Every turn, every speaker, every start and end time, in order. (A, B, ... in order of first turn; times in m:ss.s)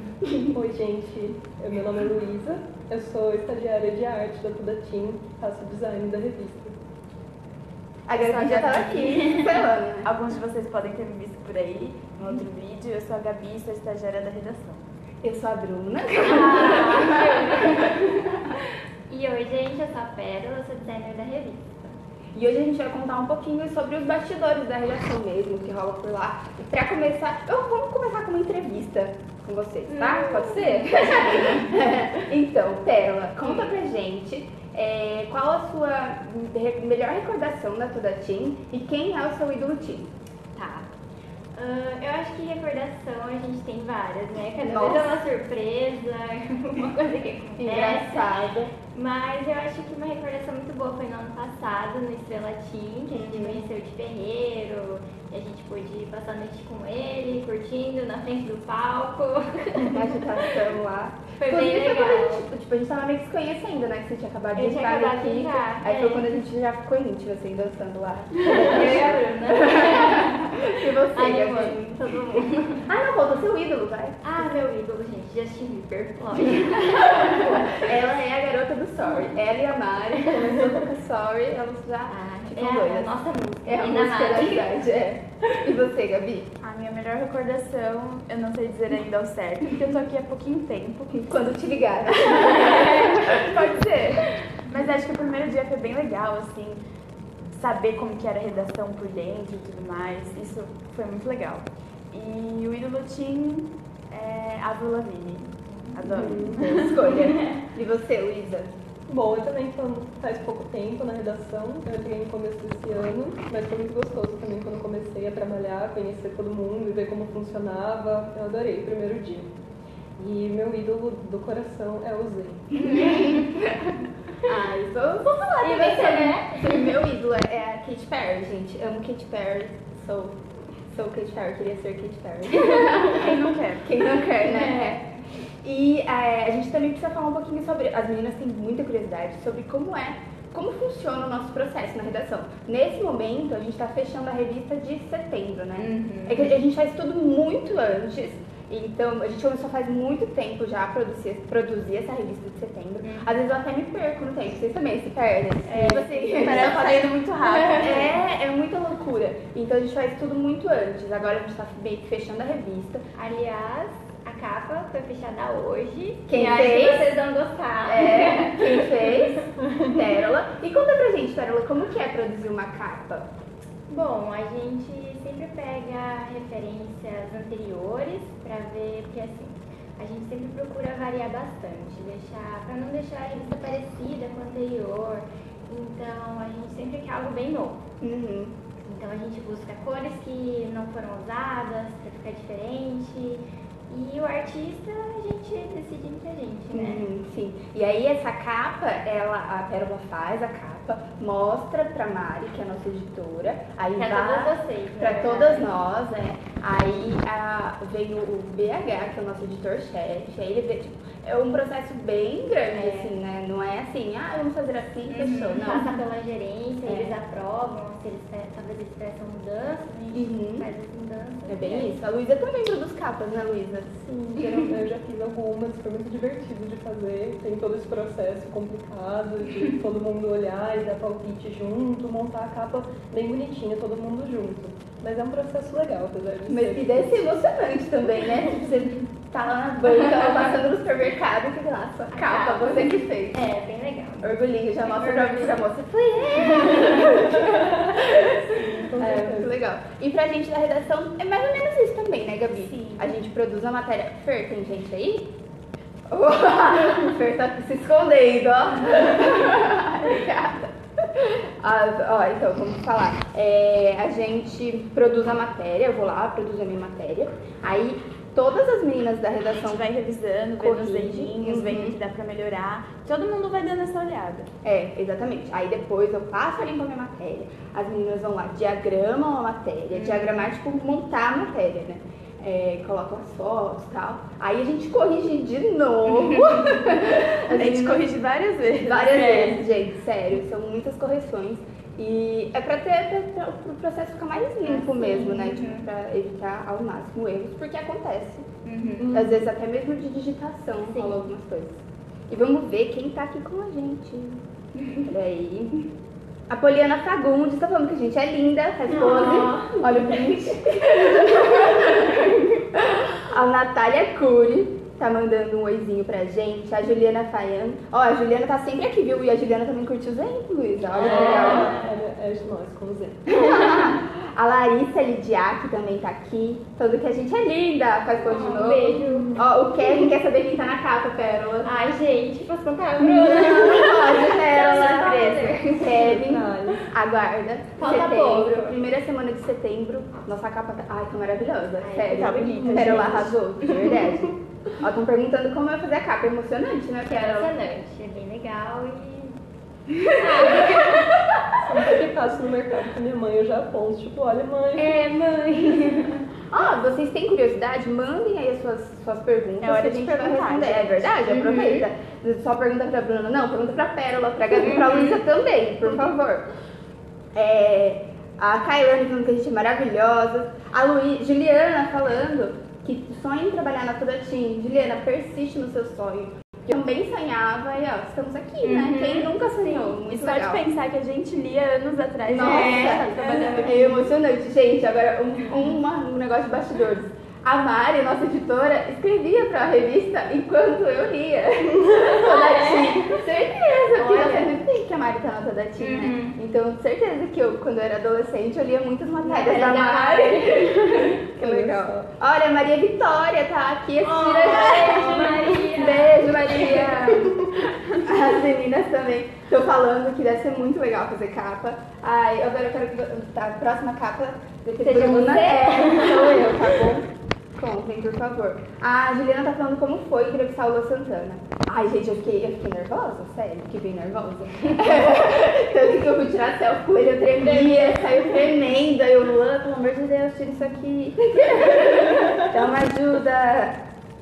0:00.2-0:00.6 A
0:00.5-0:06.8 B
0:08.1-0:10.1 A
0:08.2-0:09.7 C
0:10.0-0:14.8 D
0:15.2-0:18.1 A
0:16.2-0:18.1 C
0:19.1-0:21.9 C
0:22.3-0:40.9 A
0:29.9-0:31.7 C
0:33.4-0:33.7 C
0:41.5-0:48.3 C
0:44.7-0:45.2 A
0:47.6-0:48.7 A
0:48.9-1:00.4 C
0:53.1-0:53.6 A
0:59.9-1:12.0 A
1:01.4-1:02.4 C
1:04.5-1:06.3 C
1:08.4-1:10.5 C
1:11.1-1:12.9 C
1:12.9-1:14.2 A
1:14.2-1:17.8 C
1:16.6-1:23.1 A
1:19.0-1:19.3 C
1:22.1-1:24.8 C
1:23.6-1:26.5 A
1:26.6-1:31.2 D
1:31.1-1:33.9 A
1:32.6-1:36.8 D
1:37.5-1:47.2 D
1:45.8-1:46.2 C
1:46.1-1:46.7 B
1:46.5-1:48.8 A
1:47.0-1:47.4 C
1:49.1-1:59.5 B
2:00.2-2:02.9 B
2:02.7-2:03.7 C
2:03.0-2:03.4 A
2:04.5-2:10.4 A
2:05.2-2:06.9 C
2:10.9-2:15.0 A
2:12.5-2:13.2 C
2:13.0-2:13.9 D
2:14.4-2:15.1 C
2:15.6-2:43.0 A
2:25.8-2:26.5 C
2:33.0-2:33.3 C
2:35.6-2:36.8 C
2:35.8-2:38.2 D
2:37.4-2:38.0 C
2:43.1-2:49.1 C
2:46.3-2:47.1 A
2:47.8-2:53.3 A
2:53.9-3:07.8 C
3:08.0-3:08.5 A
3:08.8-3:17.0 C
3:16.7-3:36.0 A
3:24.0-3:25.7 C
3:32.7-3:33.1 C
3:35.1-3:42.0 C
3:36.8-3:37.1 A
3:40.1-3:40.7 A
3:41.5-3:44.7 A
3:44.3-3:57.3 B
3:56.5-4:03.4 A
4:02.1-4:05.6 C
4:04.2-4:15.3 A
4:06.3-4:07.3 C
4:07.4-4:09.5 B
4:16.1-4:29.8 A
4:29.5-4:34.5 D
4:30.6-4:32.0 A
4:34.6-4:48.1 A
4:39.9-4:40.5 C
4:47.5-4:49.6 D
4:48.8-4:58.4 A
4:54.6-4:55.9 C
4:58.6-4:59.2 C
4:59.0-4:59.3 B
4:59.1-5:04.4 A
5:00.8-5:01.3 C
5:04.8-5:05.0 C
5:05.0-5:05.9 A
5:06.5-5:21.7 A
5:08.9-5:10.8 C
5:11.8-5:12.2 C
5:20.9-5:21.9 C
5:21.0-5:23.3 B
5:23.3-5:31.7 A
5:28.2-5:29.4 C
5:29.0-5:29.4 B
5:31.6-5:36.2 C
5:33.0-5:47.5 A
5:35.9-5:36.8 B
5:37.8-5:38.8 C
5:41.8-5:43.3 C
5:42.1-5:43.3 D
5:42.6-5:43.0 B
5:47.1-5:49.4 C
5:50.2-5:51.3 C
5:51.6-5:54.9 B
5:54.8-5:56.2 C
5:56.5-6:06.4 A
5:59.6-6:01.2 D
6:01.2-6:01.9 C
6:04.6-6:05.2 C
6:07.3-6:20.6 A
6:18.6-6:19.9 C
6:20.0-6:24.0 D
6:22.3-6:57.1 A
6:22.4-6:24.0 C
6:25.4-6:25.8 C
6:32.0-6:33.2 C
6:33.9-6:34.5 C
6:35.8-6:36.4 C
6:39.2-6:41.2 C
6:41.4-6:42.1 B
6:44.0-6:47.2 C
6:54.8-6:56.8 C
6:57.6-7:13.8 A
7:07.4-7:08.2 C